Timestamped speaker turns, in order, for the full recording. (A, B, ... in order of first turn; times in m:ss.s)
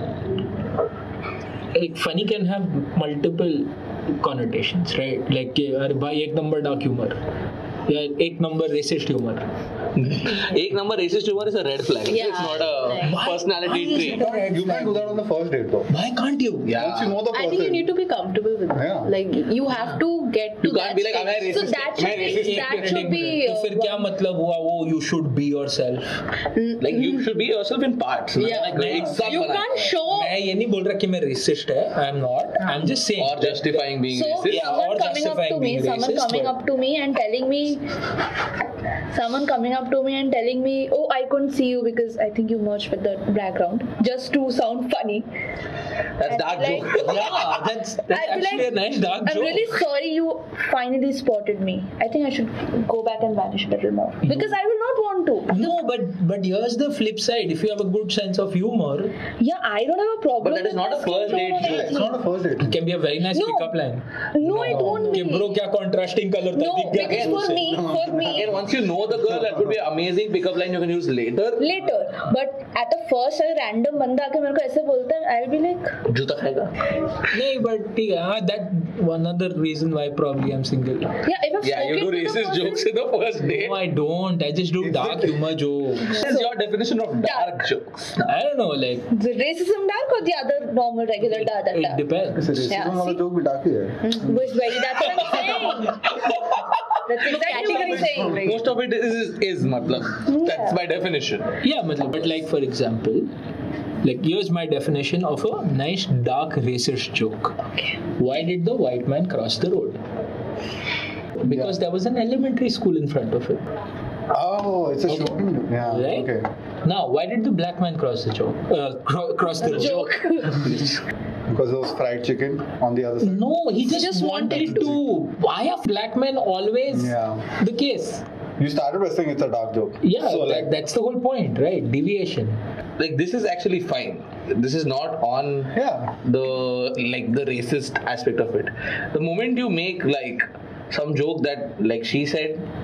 0:01.7-0:07.2 A
0:07.9-0:09.4 A
0:10.0-0:14.2 B
0:12.1-0:13.2 C
0:13.0-0:15.2 A
0:14.2-0:15.9 D
0:15.9-0:16.7 A
0:16.6-0:17.2 B
0:16.7-0:17.9 D
0:17.3-0:21.6 C
0:18.7-0:19.1 D
0:20.6-0:22.9 B
0:21.3-0:24.0 E
0:22.2-0:26.2 A
0:26.5-0:27.2 C
0:26.8-0:30.0 B
0:28.4-0:30.3 C
0:28.7-0:29.2 A
0:30.0-0:33.8 A
0:33.2-0:34.7 B
0:34.1-0:37.8 E
0:34.4-0:36.6 A
0:39.1-0:45.2 E
0:46.2-0:47.6 B
0:46.2-0:47.3 E
0:46.9-0:49.8 A
0:48.1-0:55.7 E
0:54.2-0:54.6 A
0:55.5-0:59.2 A
0:59.4-1:02.2 E
1:00.4-1:02.0 B
1:01.6-1:02.8 D
1:02.6-1:07.6 A
1:03.3-1:03.8 E
1:04.3-1:05.5 E
1:06.5-1:08.5 E
1:07.0-1:11.7 B
1:07.4-1:08.6 D
1:09.2-1:09.6 D
1:11.6-1:16.0 E
1:16.1-1:16.8 B
1:17.3-1:21.2 A
1:21.2-1:22.8 E
1:21.6-1:23.8 B
1:23.4-1:26.2 A
1:24.8-1:25.4 D
1:26.1-1:26.5 E
1:26.1-1:28.3 B
1:27.2-1:27.6 E
1:28.2-1:29.1 A
1:29.1-1:32.0 E
1:31.3-1:32.7 A
1:32.4-1:34.4 D
1:32.6-1:33.2 E
1:34.0-1:36.2 E
1:35.2-1:41.6 B
1:37.1-1:38.6 E
1:37.2-1:38.6 C
1:40.2-1:40.8 E
1:41.6-1:43.3 A
1:44.0-1:47.6 A
1:48.2-1:50.0 A
1:51.4-1:53.6 A
1:51.5-1:51.8 D
1:54.3-1:56.4 D
1:55.1-2:00.1 A
1:59.7-2:00.7 C
1:59.7-2:00.6 E
2:00.6-2:01.0 B
2:01.5-2:03.6 D
2:03.2-2:08.2 A
2:04.0-2:04.6 E
2:04.5-2:05.0 D
2:06.9-2:07.5 D
2:08.6-2:10.7 D
2:10.0-2:12.6 A
2:13.0-2:22.6 B
2:15.7-2:16.2 D